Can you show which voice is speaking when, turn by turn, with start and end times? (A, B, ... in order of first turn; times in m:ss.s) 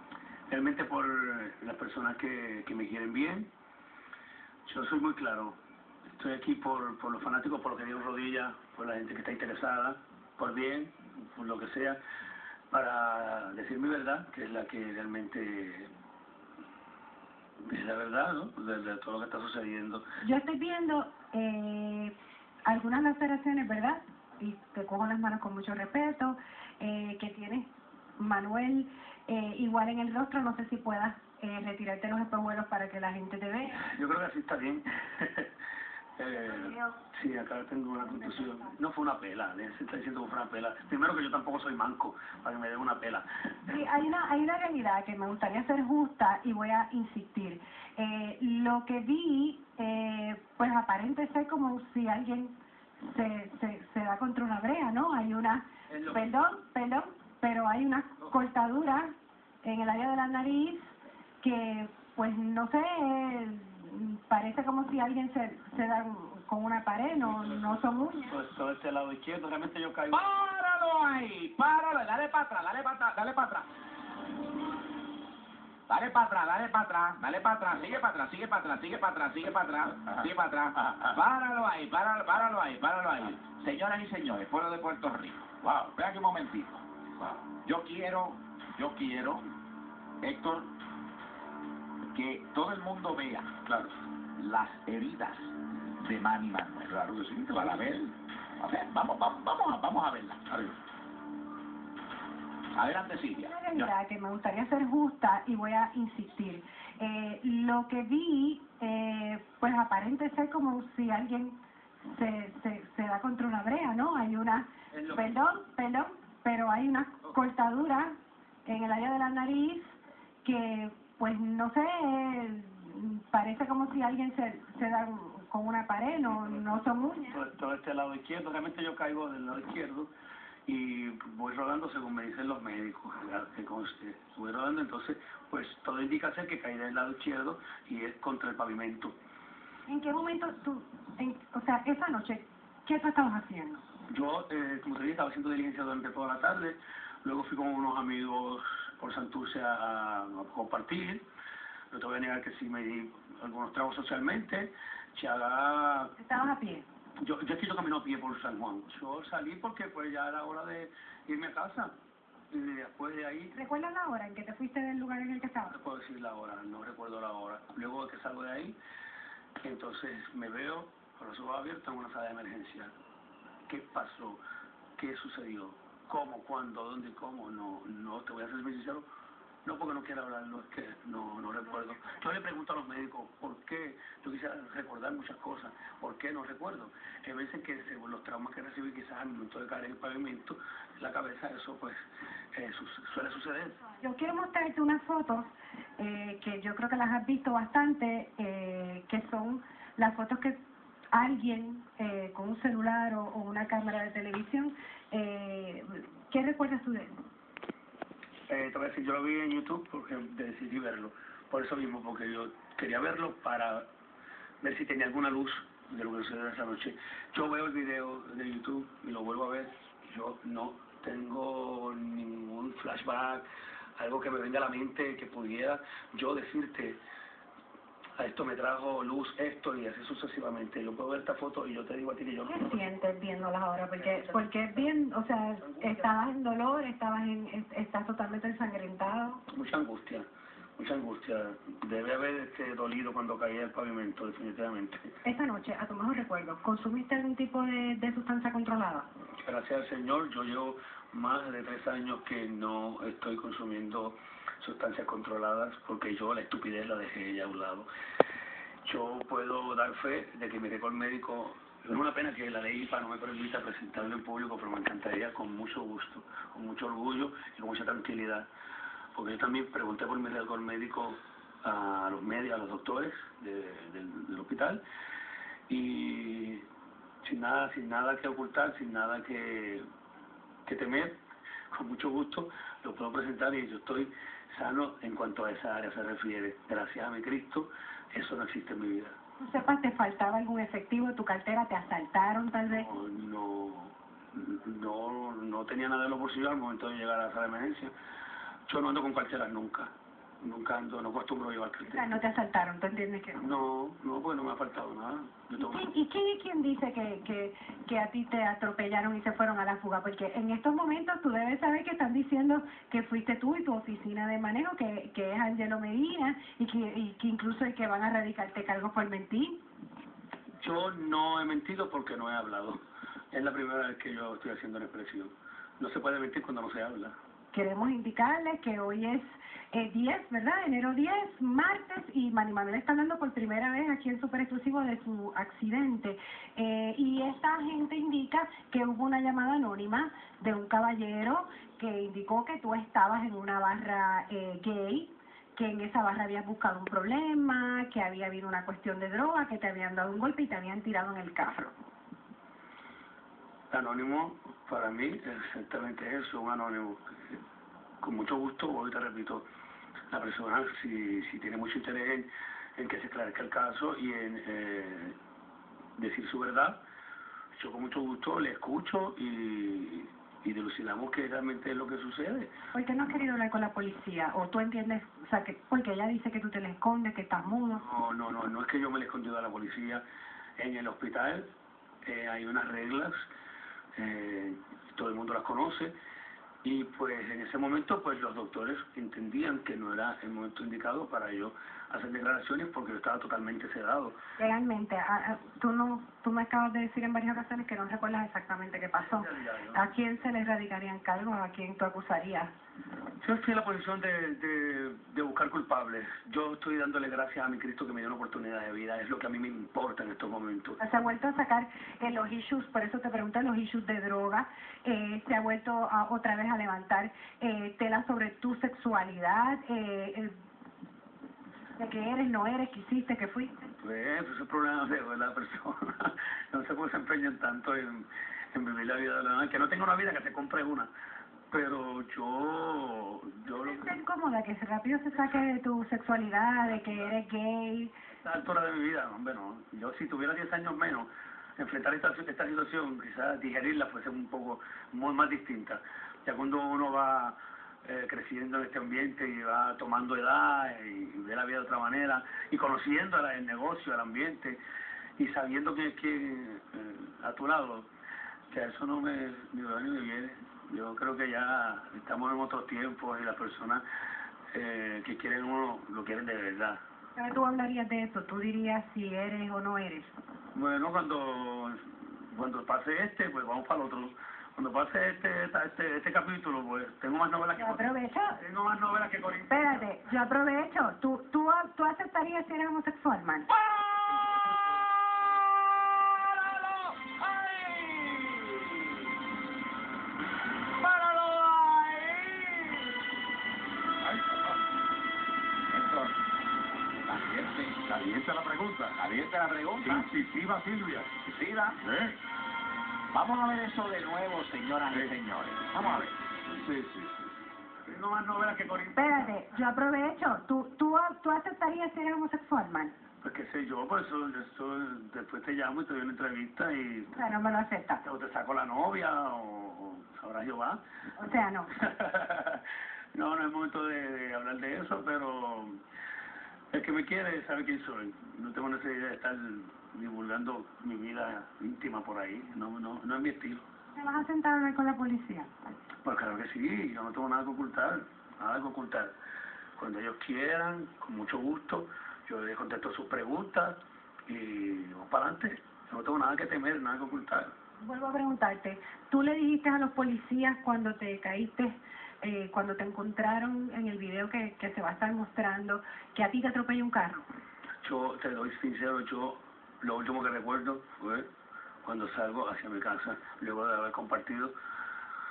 0:00.5-0:03.5 A
0:04.6-0:05.6 A
0:06.2-0:12.0 A
0:12.7-0:15.9 A
0:17.6-0:20.1 A
0:20.2-0:22.1 B
0:22.6-0:33.8 B
0:33.8-0:35.5 A
0:36.2-0:43.5 A
0:36.4-0:37.0 B
0:38.0-0:38.8 B
0:43.7-1:08.4 B
1:08.3-1:10.2 A
1:10.1-1:13.7 C
1:15.9-1:26.8 C
1:20.8-1:21.1 D
1:27.6-1:29.5 C
1:30.2-1:30.7 C
1:32.1-1:33.6 C
1:33.7-1:33.9 D
1:34.4-1:40.5 C
1:37.0-1:37.9 D
1:42.7-1:43.9 C
1:43.4-2:07.4 B
2:06.2-2:10.1 A
2:10.7-2:19.2 A
2:19.9-2:23.8 B
2:24.1-2:31.2 A
2:31.9-2:36.1 A
2:36.2-2:36.9 B
2:37.2-2:41.9 A
2:42.5-2:43.5 A
2:43.5-2:45.7 B
2:45.7-2:48.8 A
2:49.6-2:52.9 A
2:53.7-2:54.4 A
2:55.0-2:59.1 A
2:59.6-3:13.8 A
3:14.0-3:20.6 B
3:21.1-3:27.1 B
3:28.5-3:33.8 A
3:34.6-3:43.4 A
3:44.0-3:47.0 A
3:48.2-3:52.8 A
3:52.5-3:59.4 B
3:54.0-3:54.9 A
3:55.6-3:56.1 A
3:59.5-4:00.3 A
4:00.8-4:05.2 A
4:05.2-4:09.1 B
4:09.4-4:17.9 A
4:18.8-4:28.5 A
4:29.2-4:34.8 A
4:35.7-4:36.7 A
4:37.2-4:39.9 A
4:40.7-4:41.2 A
4:41.7-4:49.2 A
4:49.4-4:52.9 B
4:52.7-4:57.9 A
4:58.7-5:02.1 A
5:01.8-5:03.4 B
5:03.4-5:05.8 A
5:05.6-5:19.6 B
5:20.6-5:22.8 A
5:23.3-5:27.2 A
5:27.5-5:51.8 B
5:53.7-5:57.4 A
5:58.0-5:59.5 A
6:00.1-6:05.2 A
6:06.0-6:06.8 A
6:07.5-6:12.5 A
6:12.7-6:17.8 B
6:17.7-6:20.0 A
6:20.6-6:21.5 A
6:22.0-6:23.3 A
6:24.0-6:25.9 A
6:26.6-6:34.2 A
6:34.4-6:42.5 B
6:39.0-6:39.8 A
6:43.2-6:50.8 A
6:50.8-7:00.3 B
7:01.8-7:03.6 B
7:03.8-7:10.9 A
7:11.5-7:14.0 A
7:13.4-7:17.9 B
7:16.7-7:17.1 A
7:18.2-7:34.6 A
7:35.2-7:37.9 A
7:38.5-7:43.8 A
7:44.5-7:46.8 A
7:47.2-7:50.1 B
7:50.5-7:59.9 A
7:57.6-7:58.4 B
7:59.5-8:03.5 B
8:05.9-8:08.8 C
8:10.8-8:12.8 C
8:14.0-8:14.6 D
8:15.7-8:16.2 C
8:17.0-8:17.9 C
8:17.9-8:19.0 D
8:18.9-8:20.1 C
8:19.8-8:21.1 D
8:21.2-8:21.8 C
8:21.8-8:22.2 D
8:23.1-8:26.2 C
8:26.5-8:27.3 D
8:27.9-8:29.0 A
8:29.0-8:33.0 B
8:33.2-8:37.2 A
8:37.1-8:38.0 B
8:38.0-8:40.8 A
8:41.2-8:41.7 B
8:41.7-8:45.8 A
8:46.7-8:53.6 A
8:54.0-8:55.5 B
8:56.0-8:59.1 A
8:59.8-9:07.5 A
9:07.8-9:17.3 B
9:17.8-9:21.3 A
9:21.8-9:24.5 A